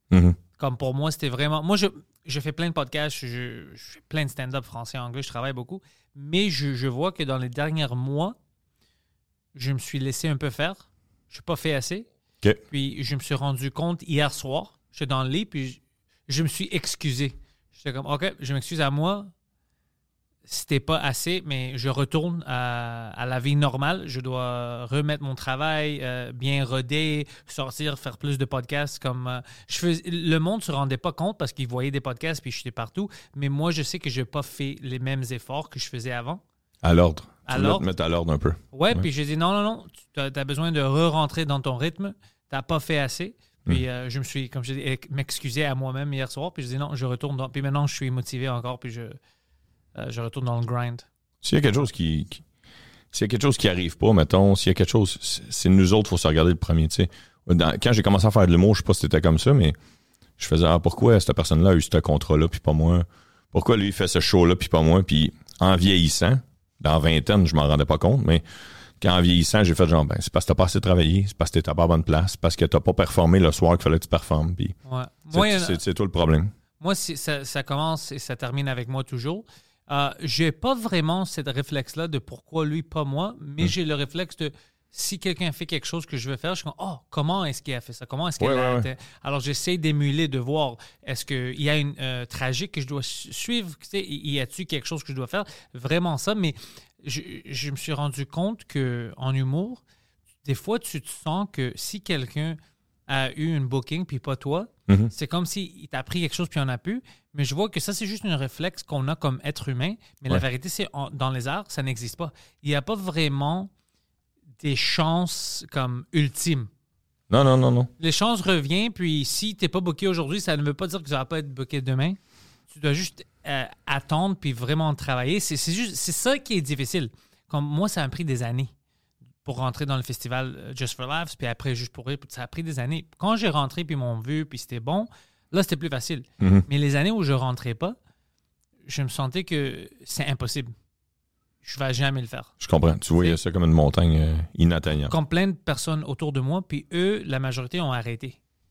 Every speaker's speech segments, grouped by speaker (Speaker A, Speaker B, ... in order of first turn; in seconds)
Speaker A: 0.1-0.4, 36.8-39.1, 51.4-52.4, 53.1-59.8, 60.4-68.4, 69.0-74.8, 75.3-76.5, 88.4-88.9, 104.9-105.1, 117.3-117.9, 136.4-136.7, 142.6-145.2
Speaker B: 0.6-8.4, 9.6-12.1, 12.7-19.3, 20.5-36.4, 37.5-37.9, 38.7-49.2, 50.0-51.0, 74.9-75.8, 76.8-99.8, 100.4-113.7, 114.6-116.7, 118.0-122.2, 122.7-128.7, 129.4-138.0, 138.9-140.7, 141.6-142.5, 145.1-148.4